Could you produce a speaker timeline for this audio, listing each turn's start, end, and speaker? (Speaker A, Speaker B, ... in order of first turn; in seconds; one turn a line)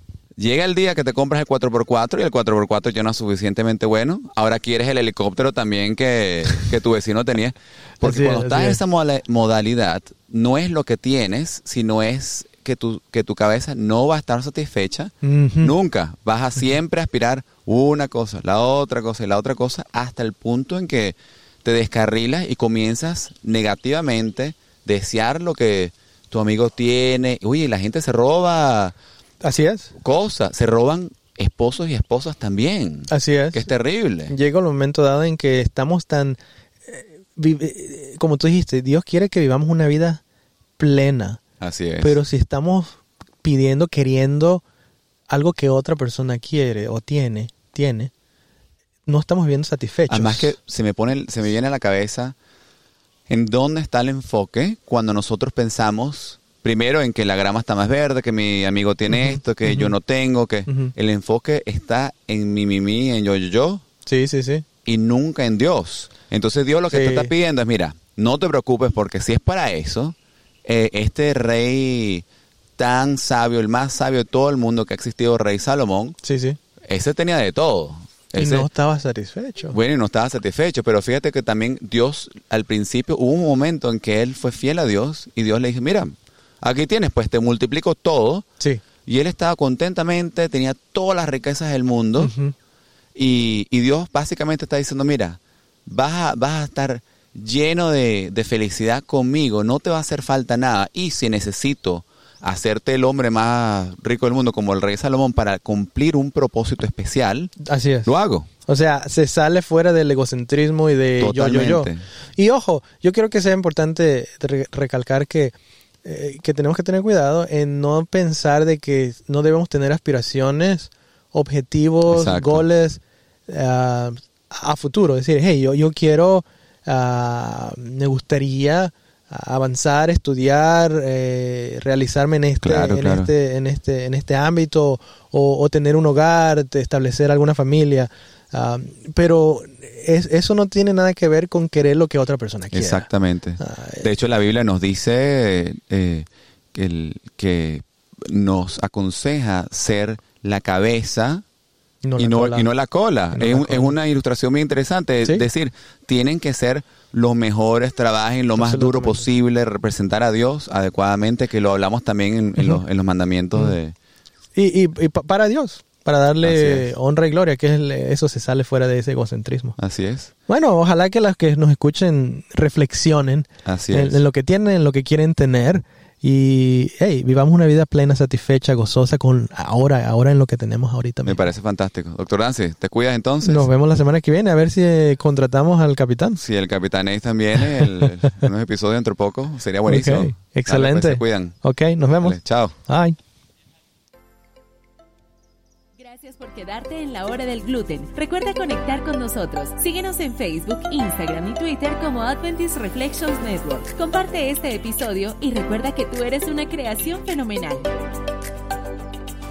Speaker A: 0.4-28.9
Speaker B: 8.0-8.8
Speaker B: 15.2-15.8
Speaker B: 29.4-29.9
Speaker A: 30.0-34.4
Speaker B: 33.1-33.7
Speaker B: 34.3-40.2
Speaker B: 40.8-41.4
Speaker A: 41.6-42.2
Speaker B: 42.0-44.6
Speaker B: 45.3-48.1
Speaker B: 49.1-50.5
Speaker A: 50.1-52.4
Speaker A: 53.3-63.8
Speaker B: 59.1-60.0
Speaker B: 60.7-60.9
Speaker B: 64.0-64.7
Speaker A: 64.8-72.3
Speaker B: 66.9-67.3
Speaker A: 72.8-76.2
Speaker B: 76.2-76.6
Speaker A: 76.8-78.7
Speaker B: 78.4-79.8
Speaker A: 79.7-88.5
Speaker A: 89.0-92.3
Speaker B: 92.2-92.5
Speaker A: 93.2-107.5
Speaker B: 107.6-108.1
Speaker A: 108.0-108.5
Speaker B: 108.7-143.1
Speaker A: 111.2-112.0
Speaker A: 122.1-122.7
Speaker A: 132.6-133.3
Speaker A: 142.7-151.4
Speaker B: 143.6-144.1
Speaker B: 152.0-152.7
Speaker A: 152.2-163.9
Speaker B: 153.3-154.0
Speaker B: 158.6-159.3
Speaker B: 164.6-169.8
Speaker A: 166.4-166.9
Speaker A: 169.8-170.3
Speaker B: 170.5-181.4
Speaker A: 173.7-174.2
Speaker A: 181.2-183.7
Speaker B: 183.4-186.4
Speaker A: 186.4-191.6
Speaker B: 189.9-193.2
Speaker A: 192.2-192.7
Speaker C: 196.0-207.9